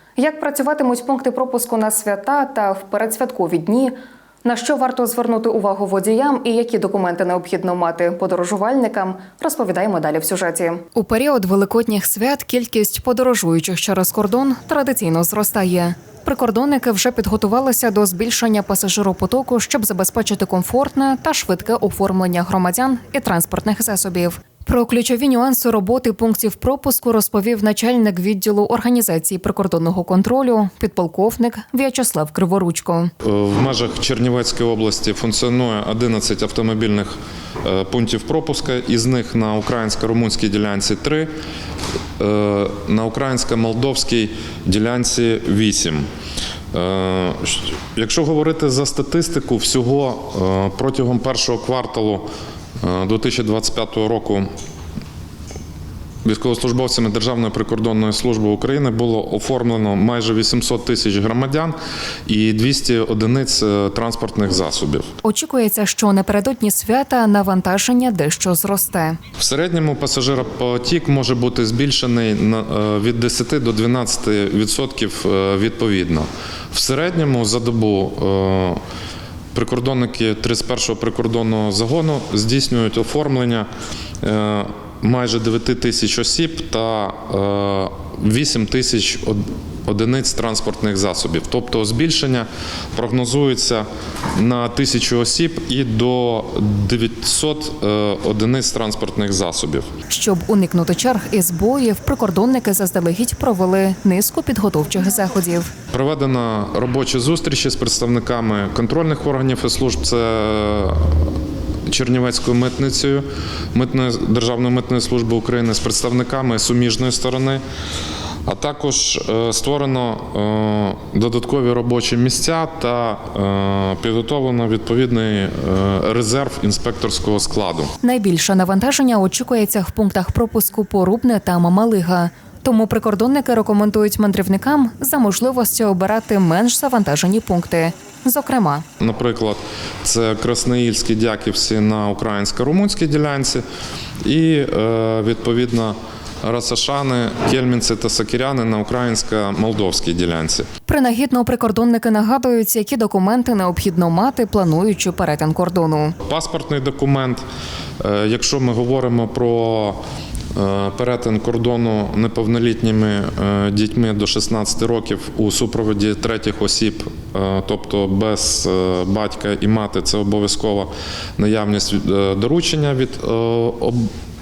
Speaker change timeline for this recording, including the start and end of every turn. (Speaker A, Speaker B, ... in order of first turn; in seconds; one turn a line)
Speaker A: 0.2-33.1
Speaker B: 33.2-37.1
Speaker B: 37.6-41.3
Speaker B: 42.2-46.1
Speaker B: 46.7-52.3
Speaker B: 52.8-54.5
Speaker B: 56.2-61.8
Speaker B: 62.3-65.1
Speaker A: 65.2-69.2
Speaker B: 69.4-78.8
Speaker B: 79.5-83.7
Speaker B: 84.2-99.9
Speaker A: 100.1-105.7
Speaker B: 105.9-111.2
Speaker B: 111.9-117.6
Speaker B: 118.5-127.9
Speaker A: 128.0-138.8
Speaker B: 139.0-143.6
Speaker B: 144.2-150.7
Speaker A: 150.9-156.2
Speaker B: 156.3-157.4
Speaker B: 158.0-160.0
Speaker B: 160.5-174.1